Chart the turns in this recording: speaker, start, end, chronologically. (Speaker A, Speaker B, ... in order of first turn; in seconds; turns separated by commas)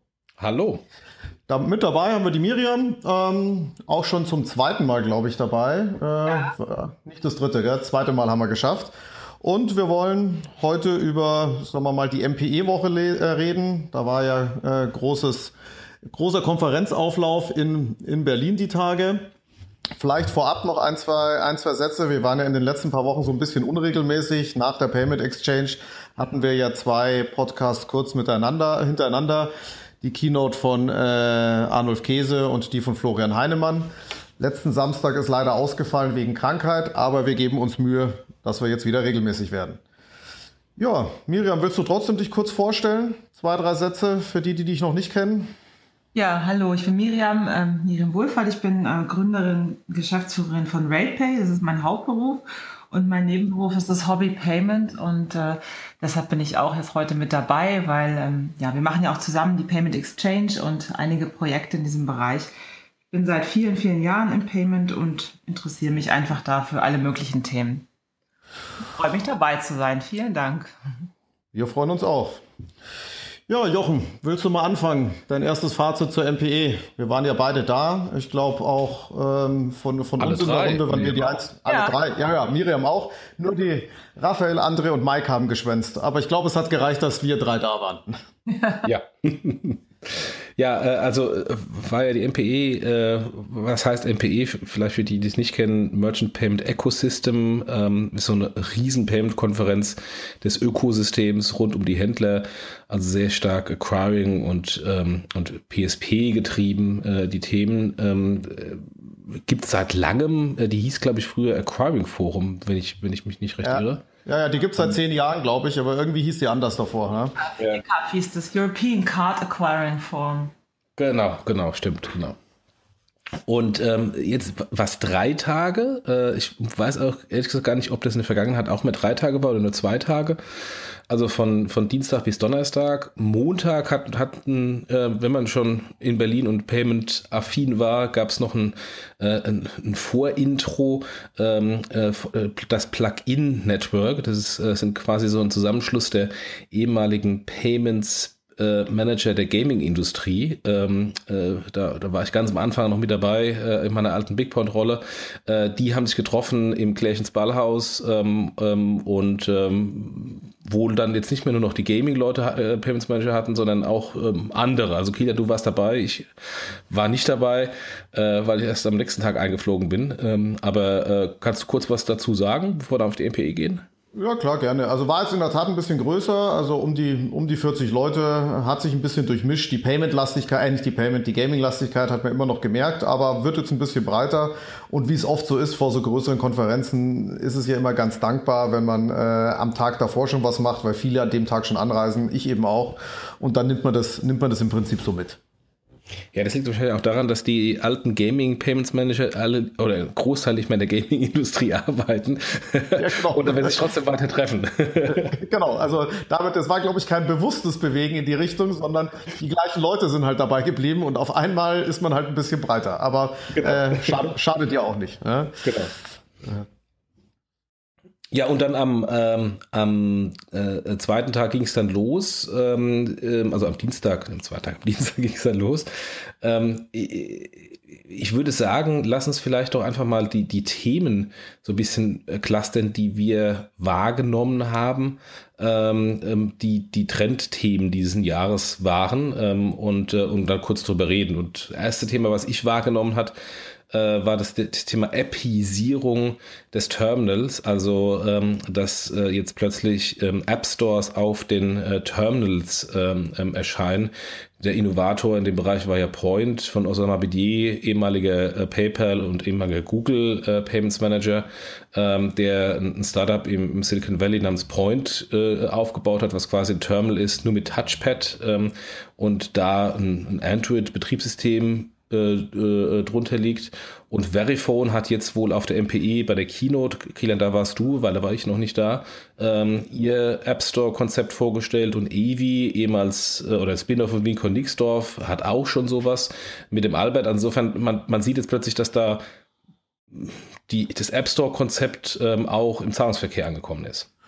Speaker A: 0.4-0.8, Speaker B: 1.5-15.5, Speaker B: 16.1-19.3, Speaker B: 20.0-33.9, Speaker B: 34.4-39.8, Speaker B: 40.8-45.5, Speaker C: 46.1-62.5, Speaker C: 63.1-67.9, Speaker C: 68.8-70.7, Speaker B: 71.5-72.4, Speaker B: 73.5-88.2, Speaker A: 80.2-81.4, Speaker C: 81.7-81.9, Speaker C: 88.5-88.9, Speaker A: 88.8-114.0, Speaker B: 113.6-117.3, Speaker C: 117.4-120.5, Speaker A: 117.6-117.8, Speaker A: 121.0-122.4, Speaker A: 123.5-130.4, Speaker A: 131.1-166.3, Speaker A: 166.9-173.8, Speaker B: 174.1-195.4, Speaker A: 196.3-205.3, Speaker B: 203.0-203.8, Speaker B: 205.1-215.7, Speaker A: 213.6-214.3, Speaker A: 215.6-215.9, Speaker A: 218.3-243.3, Speaker A: 243.9-289.2, Speaker A: 290.1-294.1